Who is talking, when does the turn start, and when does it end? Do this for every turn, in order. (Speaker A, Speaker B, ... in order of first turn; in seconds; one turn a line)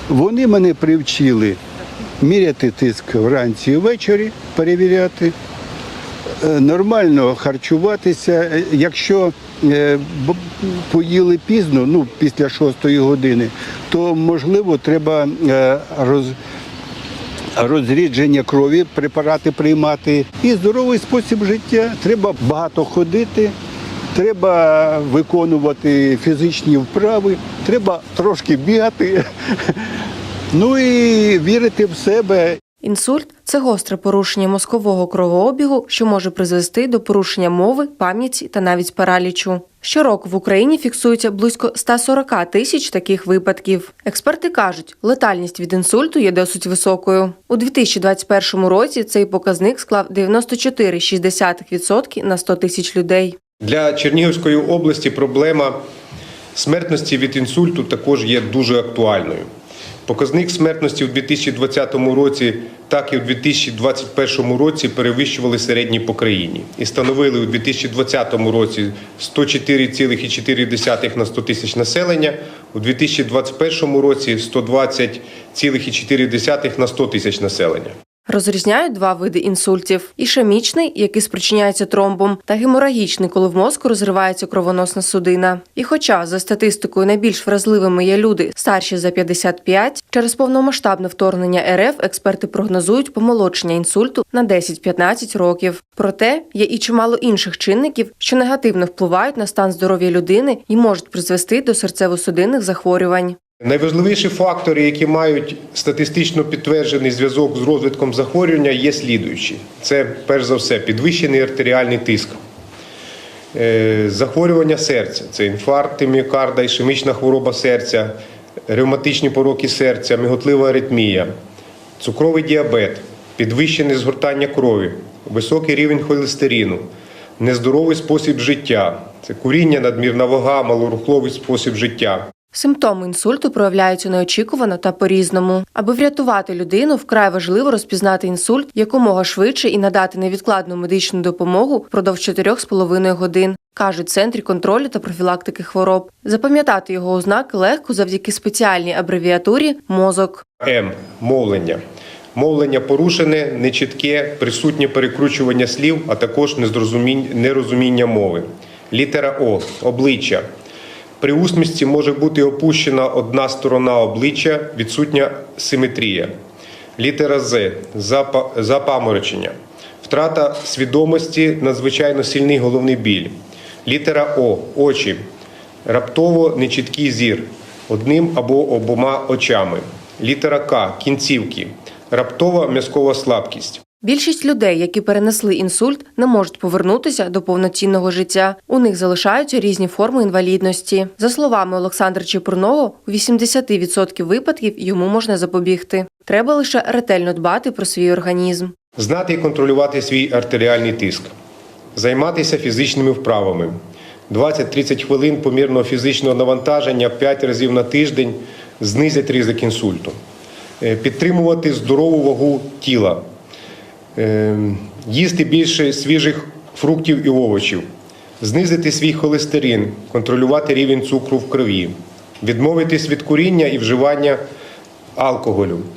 Speaker A: 0.1-1.6
Speaker A: 2.2-5.3
Speaker A: 6.4-16.4
Speaker A: 17.6-23.5
Speaker A: 24.1-29.8
Speaker A: 30.5-32.6
Speaker B: 32.8-53.4
Speaker C: 53.6-55.8
Speaker C: 56.5-59.5
Speaker C: 60.1-77.9
Speaker B: 78.3-103.4
Speaker C: 103.6-112.4
Speaker C: 113.5-118.2
Speaker C: 118.7-121.3
Speaker C: 122.0-126.9
Speaker C: 127.4-132.3
Speaker B: 132.5-150.4
Speaker C: 150.6-151.8
Speaker C: 152.3-160.4
Speaker C: 161.2-166.3
Speaker C: 167.0-175.2
Speaker C: 175.9-183.8
Speaker B: 184.0-198.8
Speaker C: 199.0-201.3
Speaker C: 202.0-203.8
Speaker C: 204.3-210.2
Speaker C: 210.8-213.2
Speaker C: 214.2-217.9
Speaker C: 218.4-224.4
Speaker C: 225.2-225.9